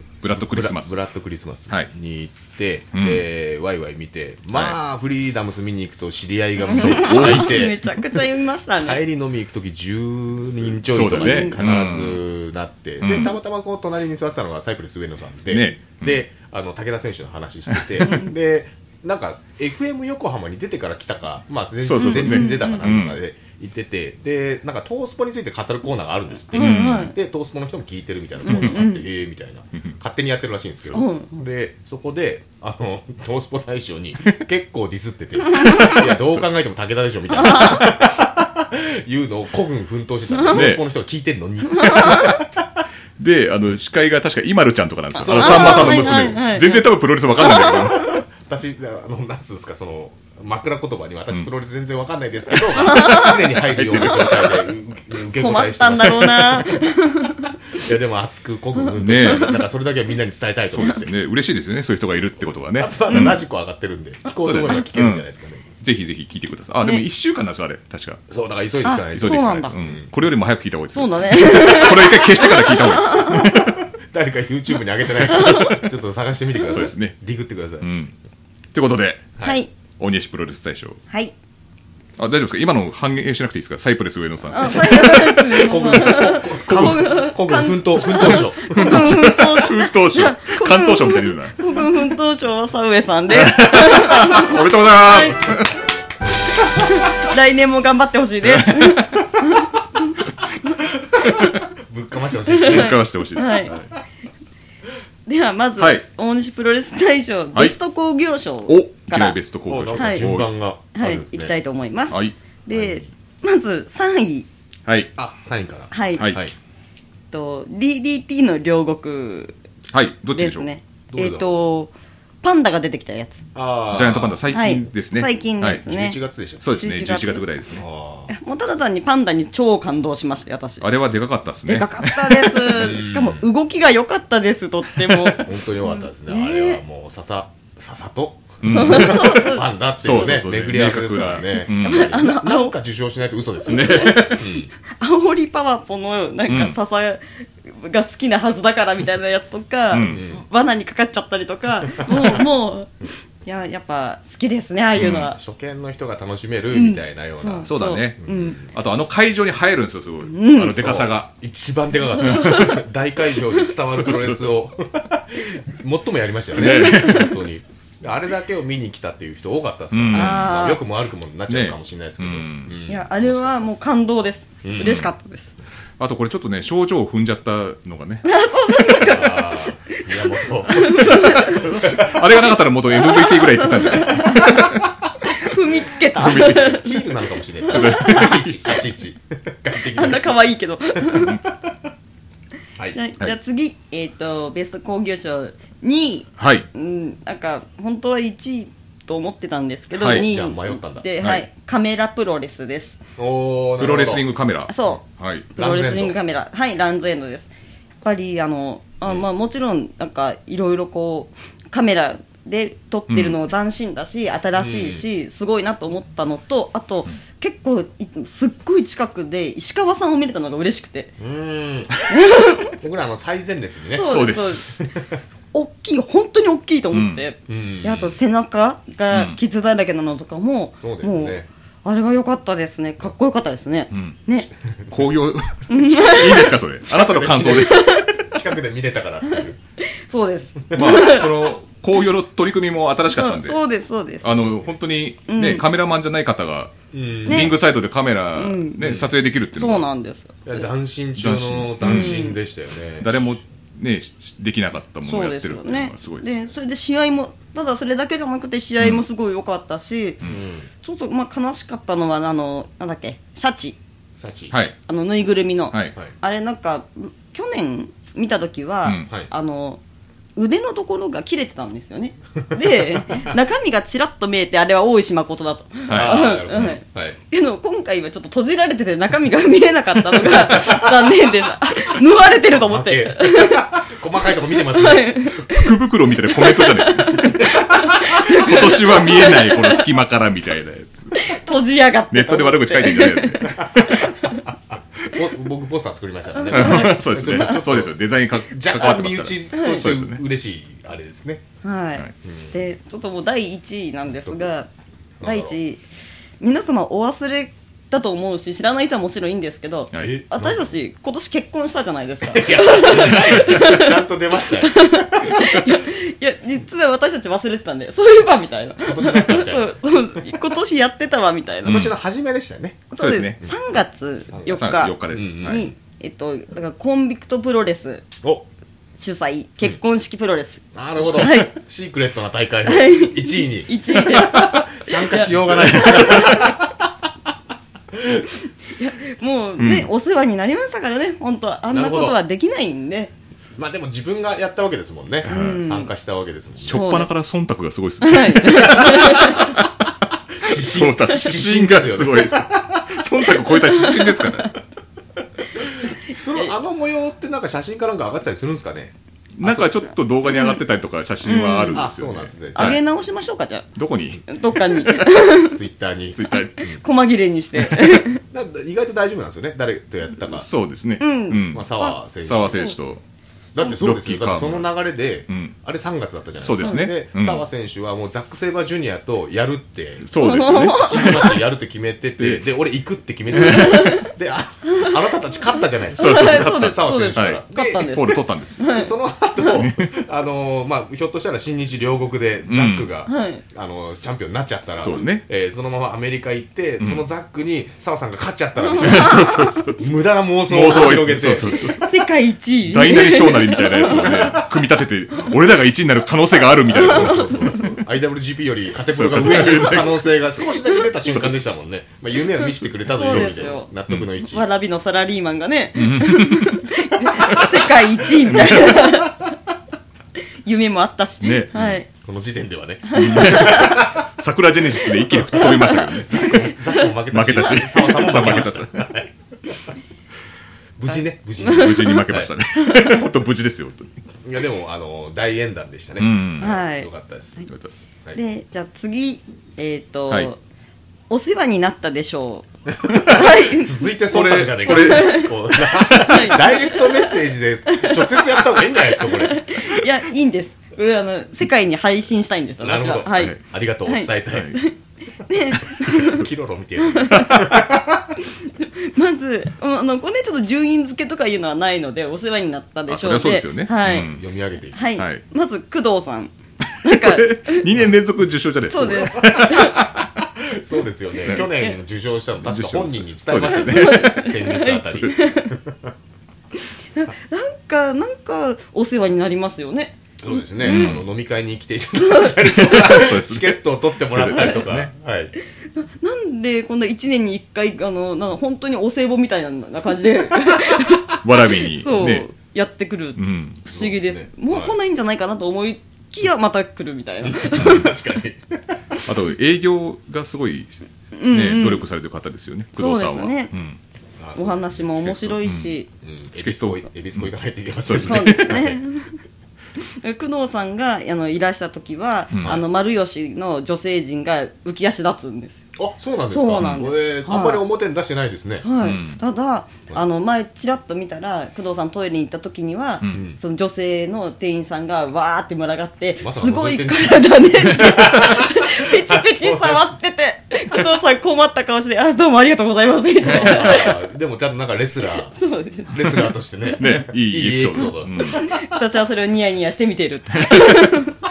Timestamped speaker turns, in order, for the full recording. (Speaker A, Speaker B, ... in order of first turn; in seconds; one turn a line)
Speaker A: 0.2-0.9
Speaker B: 0.3-8.2
Speaker A: 2.9-3.2
Speaker C: 6.6-9.0
Speaker A: 6.7-7.8
Speaker B: 8.8-42.5
Speaker A: 10.9-12.2
Speaker C: 11.1-11.7
Speaker A: 13.0-13.3
Speaker A: 15.5-16.2
Speaker A: 17.7-18.2
Speaker A: 21.8-23.2
Speaker C: 21.9-22.9
Speaker A: 26.5-27.1
Speaker C: 26.6-27.1
Speaker C: 28.4-29.0
Speaker A: 28.5-28.8
Speaker C: 30.9-31.4
Speaker A: 35.6-36.4
Speaker C: 37.4-37.9
Speaker C: 40.3-40.6
Speaker A: 40.5-40.8
Speaker C: 41.7-42.2
Speaker A: 41.8-42.4
Speaker A: 43.2-48.2
Speaker B: 45.1-46.4
Speaker C: 45.2-46.9
Speaker C: 47.5-47.9
Speaker B: 47.5-56.9
Speaker A: 52.6-54.7
Speaker C: 52.8-53.5
Speaker C: 55.4-57.5
Speaker B: 57.7-61.1
Speaker A: 59.0-59.6
Speaker C: 59.1-59.5
Speaker A: 60.7-63.4
Speaker B: 62.8-65.7
Speaker C: 63.1-63.4
Speaker A: 64.3-65.2
Speaker A: 65.8-68.2
Speaker B: 68.3-70.1
Speaker C: 68.8-69.8
Speaker A: 69.1-73.8
Speaker C: 70.9-73.5
Speaker B: 73.4-77.9
Speaker C: 75.2-75.8
Speaker A: 76.7-77.2
Speaker A: 77.8-78.1
Speaker A: 78.7-79.3
Speaker C: 79.4-79.7
Speaker A: 80.0-81.0
Speaker A: 82.2-87.2
Speaker C: 84.5-95.5
Speaker B: 85.2-89.0
Speaker A: 88.1-91.8
Speaker A: 93.3-95.8
Speaker C: 96.8-100.8
Speaker A: 98.4-99.1
Speaker B: 101.1-103.9
Speaker C: 102.5-103.7
Speaker A: 102.5-103.8
Speaker C: 105.3-109.3
Speaker A: 105.8-106.0
Speaker A: 108.7-110.5
Speaker B: 109.7-111.5
Speaker C: 109.9-110.3
Speaker C: 110.9-114.5
Speaker A: 112.1-112.3
Speaker B: 112.7-113.0
Speaker A: 114.8-115.1
Speaker B: 115.2-116.5
Speaker C: 115.9-116.3
Speaker A: 116.2-116.4
Speaker C: 117.3-119.6
Speaker A: 119.9-120.7
Speaker C: 120.3-123.4
Speaker B: 121.1-121.5
Speaker B: 123.5-124.4
Speaker A: 123.9-125.8
Speaker C: 124.5-126.2
Speaker B: 125.6-126.9
Speaker A: 126.6-127.8
Speaker C: 126.7-127.4
Speaker B: 127.7-128.3
Speaker C: 128.3-130.8
Speaker A: 130.8-132.7
Speaker C: 131.7-136.8
Speaker B: 132.7-133.4
Speaker B: 135.3-144.7
Speaker A: 138.6-142.3
Speaker C: 138.7-140.4
Speaker C: 141.8-142.7
Speaker A: 143.7-144.4
Speaker C: 143.7-155.4
Speaker A: 146.5-146.8
Speaker A: 149.9-150.2
Speaker B: 150.1-150.4
Speaker B: 151.9-152.3
Speaker A: 154.9-155.3
Speaker B: 155.2-158.7
Speaker C: 156.7-158.6
Speaker A: 157.6-161.3
Speaker C: 160.3-160.8
Speaker B: 160.7-173.8
Speaker C: 162.2-162.8
Speaker A: 163.9-164.4
Speaker A: 166.5-167.5
Speaker C: 166.6-167.3
Speaker A: 169.9-170.5
Speaker C: 170.1-170.8
Speaker A: 171.5-172.8
Speaker C: 172.8-175.5
Speaker B: 174.6-175.1
Speaker A: 176.0-178.2
Speaker C: 178.2-181.9
Speaker B: 179.0-182.3
Speaker A: 180.8-184.9
Speaker C: 183.1-186.9
Speaker A: 186.1-186.9
Speaker B: 186.5-190.4
Speaker C: 187.7-188.4
Speaker A: 187.7-188.8
Speaker C: 189.9-191.4
Speaker B: 191.1-191.7
Speaker C: 192.9-203.0
Speaker A: 196.4-196.7
Speaker A: 200.0-200.3
Speaker B: 200.0-201.1
Speaker B: 203.2-204.2
Speaker A: 203.8-205.5
Speaker C: 204.7-205.0
Speaker B: 205.5-206.2
Speaker C: 205.6-221.1
Speaker A: 213.1-213.4
Speaker B: 214.5-215.1
Speaker B: 221.2-221.9
Speaker C: 222.1-222.7
Speaker B: 222.7-224.1
Speaker C: 223.9-224.7
Speaker A: 224.0-224.8
Speaker B: 224.8-225.1
Speaker C: 225.5-234.5
Speaker A: 226.9-227.2
Speaker B: 227.5-228.2
Speaker A: 229.1-229.4
Speaker B: 230.8-231.5
Speaker A: 233.9-234.2
Speaker A: 234.9-238.0
Speaker C: 235.7-236.6
Speaker B: 236.8-239.6
Speaker C: 237.6-238.2
Speaker C: 239.8-241.5
Speaker A: 240.7-243.6
Speaker C: 243.1-244.4
Speaker A: 244.2-249.9
Speaker C: 245.3-245.6
Speaker B: 246.9-247.6
Speaker C: 247.3-247.6
Speaker C: 248.3-248.8
Speaker B: 248.8-249.1
Speaker C: 249.6-250.6
Speaker B: 250.4-253.2
Speaker A: 251.2-252.3
Speaker C: 251.8-252.4
Speaker A: 253.0-256.4
Speaker C: 255.0-260.2
Speaker B: 260.2-260.7
Speaker C: 260.8-263.8
Speaker B: 264.2-264.5
Speaker A: 264.5-264.8
Speaker C: 264.9-269.8
Speaker A: 265.7-265.9
Speaker A: 268.8-269.1
Speaker C: 270.4-283.8
Speaker B: 272.6-273.2
Speaker A: 275.9-276.7
Speaker B: 275.9-277.2
Speaker B: 280.3-280.9
Speaker B: 282.5-285.2
Speaker C: 284.5-285.7
Speaker A: 285.2-291.4
Speaker C: 286.3-289.9
Speaker B: 287.2-287.9
Speaker C: 291.1-294.4
Speaker A: 292.1-294.1
Speaker B: 293.4-297.9
Speaker C: 296.3-297.6
Speaker A: 296.5-300.2
Speaker B: 298.4-301.4
Speaker C: 299.5-299.8
Speaker C: 301.6-304.7
Speaker B: 302.2-302.5
Speaker B: 304.2-304.5
Speaker B: 305.2-305.6
Speaker C: 305.2-305.8
Speaker C: 306.4-314.0
Speaker A: 309.9-310.2
Speaker B: 310.0-310.7
Speaker B: 312.2-315.6
Speaker A: 313.1-313.6
Speaker C: 314.6-321.9
Speaker B: 318.8-319.7
Speaker B: 321.6-322.9
Speaker A: 321.7-321.9
Speaker C: 322.9-328.0
Speaker A: 323.0-323.4
Speaker B: 324.3-325.7
Speaker A: 324.5-325.6
Speaker C: 329.0-331.5
Speaker B: 330.7-336.9
Speaker C: 332.6-336.3
Speaker A: 335.6-336.5
Speaker B: 337.9-338.3
Speaker C: 338.7-343.1
Speaker A: 339.6-339.9
Speaker B: 341.7-342.2
Speaker B: 343.6-346.8
Speaker A: 345.3-345.6
Speaker C: 345.3-345.9
Speaker A: 346.6-349.9
Speaker C: 346.7-347.1
Speaker C: 348.0-349.6
Speaker B: 350.4-353.0
Speaker A: 350.4-354.6
Speaker C: 353.4-354.5
Speaker B: 355.6-359.8
Speaker A: 359.4-362.8
Speaker C: 360.3-360.6
Speaker C: 361.2-361.9
Speaker B: 361.7-362.8
Speaker C: 362.5-363.7
Speaker A: 363.7-365.1
Speaker C: 364.3-365.6
Speaker B: 365.4-366.8
Speaker A: 366.1-366.8
Speaker C: 366.7-368.2
Speaker A: 367.6-368.0
Speaker B: 368.3-370.4
Speaker A: 370.3-373.0
Speaker C: 371.0-372.0
Speaker B: 371.5-372.8
Speaker B: 373.5-387.9
Speaker A: 373.6-374.7
Speaker A: 375.3-375.6
Speaker A: 376.4-377.4
Speaker C: 376.6-376.9
Speaker A: 380.0-381.3
Speaker C: 380.2-381.4
Speaker A: 382.2-382.4
Speaker C: 383.3-384.1
Speaker A: 383.3-383.9
Speaker C: 384.7-384.9
Speaker C: 385.9-389.6
Speaker A: 385.9-388.7
Speaker B: 388.6-401.8
Speaker A: 389.5-390.0
Speaker A: 392.5-392.9
Speaker C: 393.1-393.4
Speaker A: 394.8-395.2
Speaker A: 396.8-397.1
Speaker C: 398.6-399.4
Speaker A: 398.8-401.9
Speaker C: 401.7-404.4
Speaker A: 402.6-407.6
Speaker B: 403.9-404.4
Speaker B: 406.7-414.4
Speaker C: 406.7-407.6
Speaker A: 408.9-410.0
Speaker A: 411.0-411.4
Speaker C: 412.8-413.7
Speaker A: 412.9-414.1
Speaker C: 414.2-419.3
Speaker A: 415.8-416.7
Speaker B: 417.2-417.5
Speaker A: 418.3-418.9
Speaker C: 420.4-421.9
Speaker A: 421.2-421.8
Speaker B: 421.9-424.1
Speaker C: 422.9-423.8
Speaker A: 422.9-426.5
Speaker B: 424.9-429.1
Speaker C: 425.3-426.8
Speaker A: 427.1-428.9
Speaker B: 430.8-432.3
Speaker A: 431.4-433.9
Speaker C: 431.4-432.0
Speaker C: 432.6-433.0
Speaker B: 434.2-437.5
Speaker A: 436.0-436.5
Speaker C: 436.4-436.9
Speaker A: 437.4-437.9
Speaker C: 438.1-440.4
Speaker C: 441.1-443.9
Speaker B: 442.8-449.5
Speaker A: 444.1-446.4
Speaker C: 444.6-445.3
Speaker C: 445.9-447.2
Speaker C: 447.7-453.3
Speaker B: 452.6-454.5
Speaker A: 453.1-453.4
Speaker C: 453.9-456.3
Speaker A: 454.3-454.6
Speaker B: 455.8-458.1
Speaker C: 456.8-457.5
Speaker A: 457.1-457.6
Speaker C: 458.2-464.1
Speaker A: 462.9-464.2
Speaker B: 464.0-464.8
Speaker C: 464.7-467.7
Speaker A: 465.0-465.2
Speaker A: 466.8-470.1
Speaker C: 468.7-469.8
Speaker B: 470.4-475.9
Speaker A: 471.2-471.5
Speaker C: 471.3-471.8
Speaker A: 472.4-474.3
Speaker C: 473.5-475.5
Speaker C: 476.9-480.9
Speaker B: 480.2-485.3
Speaker A: 480.6-481.1
Speaker C: 482.0-482.3
Speaker A: 482.4-484.9
Speaker C: 485.7-497.9
Speaker A: 491.1-492.2
Speaker A: 493.2-493.6
Speaker B: 493.7-494.8
Speaker B: 497.2-499.0
Speaker A: 497.6-497.9
Speaker A: 499.0-500.8
Speaker C: 501.2-501.8
Speaker A: 501.3-503.8
Speaker C: 502.8-503.5
Speaker B: 504.2-505.3
Speaker C: 504.4-505.9
Speaker A: 505.1-505.7
Speaker B: 506.0-508.8
Speaker A: 506.3-507.3
Speaker A: 507.8-508.7
Speaker C: 507.9-509.2
Speaker C: 510.0-515.6
Speaker A: 512.3-512.6
Speaker B: 515.8-518.6
Speaker C: 516.3-517.6
Speaker C: 518.6-534.0
Speaker A: 518.8-519.2
Speaker B: 523.1-523.4
Speaker B: 526.2-529.9
Speaker B: 533.2-535.4
Speaker C: 535.3-536.7
Speaker B: 535.9-538.6
Speaker A: 536.8-538.4
Speaker C: 538.3-541.2
Speaker A: 540.4-541.0